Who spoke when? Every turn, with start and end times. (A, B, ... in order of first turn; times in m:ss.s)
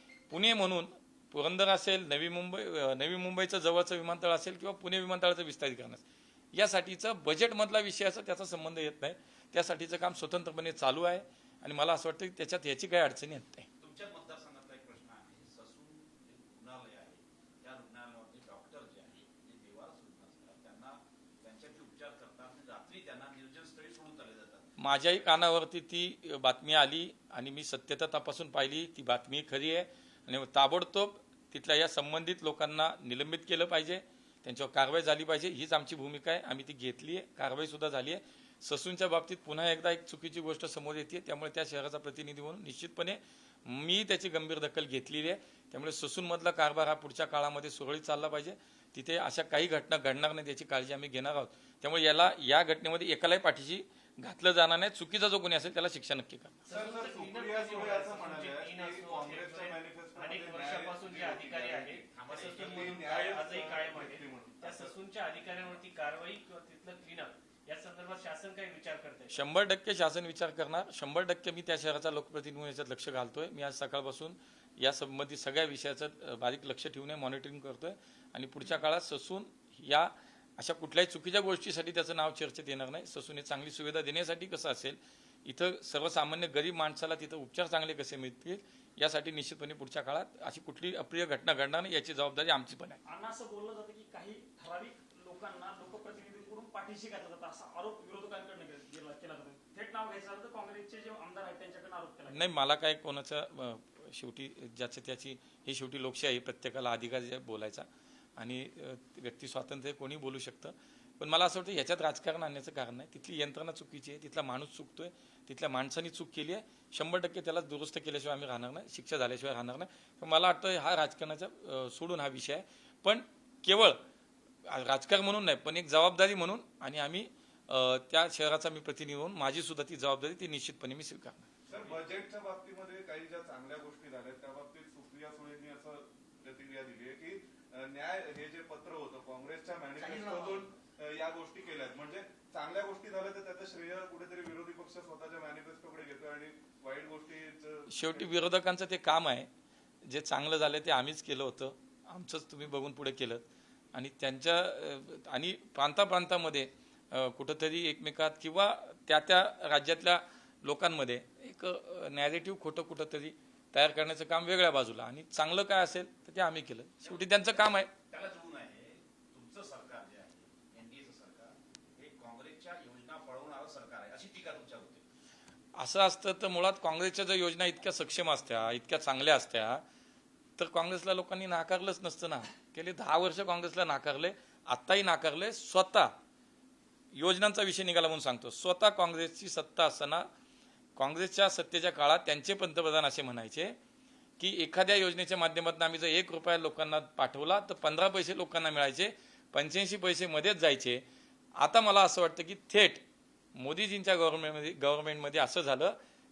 0:00.3-0:13.7 A
0:13.8-0:24.7 B
0:24.8-0:56.6 A
0:56.6-1:09.4 C
0:56.7-1:02.1 D
1:02.1-1:02.8 B
1:02.6-1:05.0 D
1:09.3-1:33.0 A
1:33.0-1:42.4 E
1:42.3-2:04.0 A
2:04.7-2:11.5 A
2:11.7-2:28.3 D
2:20.0-2:20.7 C
2:27.9-2:29.5 A
2:30.0-2:47.9 A
2:47.0-2:55.0 B
2:55.8-2:59.8 A
3:00.6-3:06.1 A
3:07.1-3:10.3 A
3:11.0-3:13.8 A
3:14.4-3:21.0 A
3:21.6-3:26.0 A